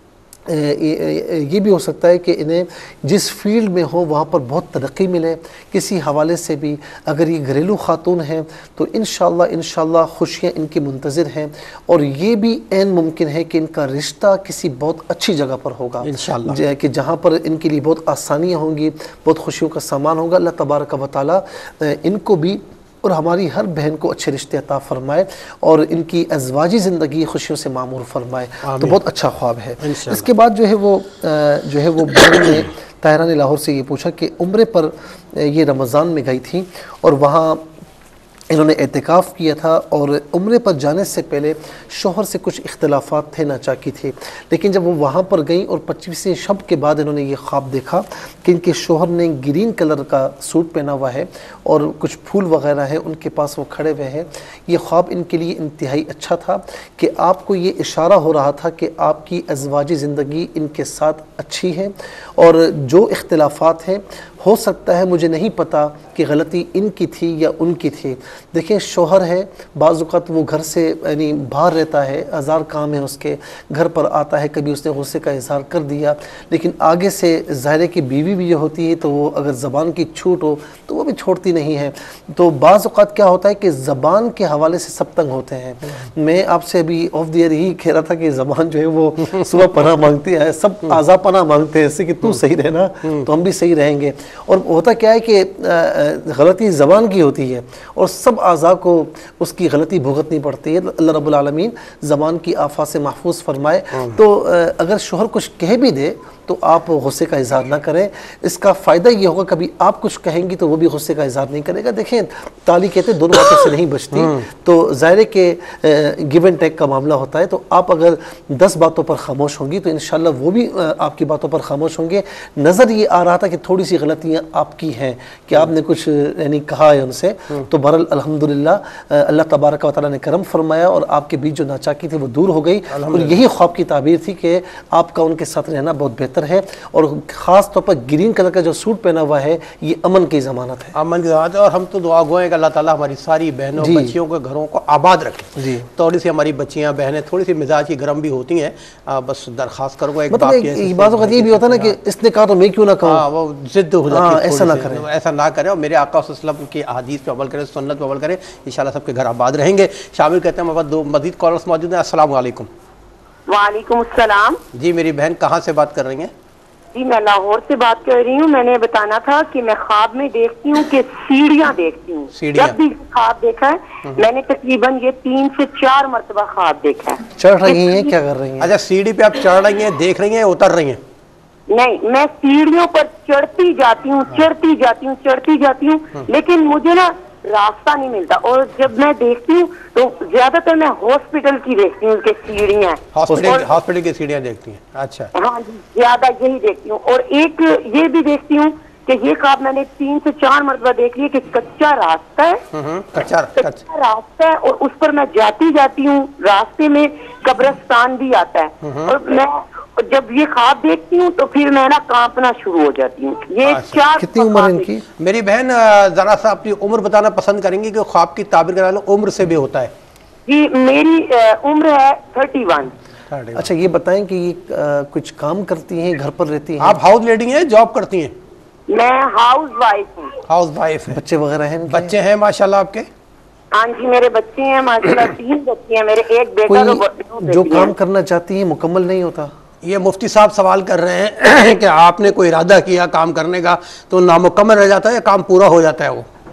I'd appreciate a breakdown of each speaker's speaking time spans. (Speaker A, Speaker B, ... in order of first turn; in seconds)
Speaker A: 0.5-37.6, 38.5-140.9, 143.8-144.2, 145.6-145.9, 150.3-153.2, 154.1-155.1, 177.3-178.7, 214.2-215.0, 223.5-227.0, 231.1-232.2, 236.7-239.5
Speaker B: 16.0-16.6, 28.6-29.0, 29.8-30.3, 114.1-114.5, 132.9-133.4, 140.9-151.9, 153.0-162.7, 164.7-166.3, 172.3-172.8, 178.6-181.0, 193.1-195.3, 202.7-203.8, 208.8-209.1, 213.6-214.0, 215.2-219.9, 223.3-223.7, 226.8-228.3, 230.5-231.2, 231.9-233.1, 239.8-246.2
Speaker C: 163.5-164.6, 166.9-177.2, 181.7-193.7, 195.3-202.6, 203.6-214.8, 220.5-222.9, 228.9-230.3, 233.7-237.9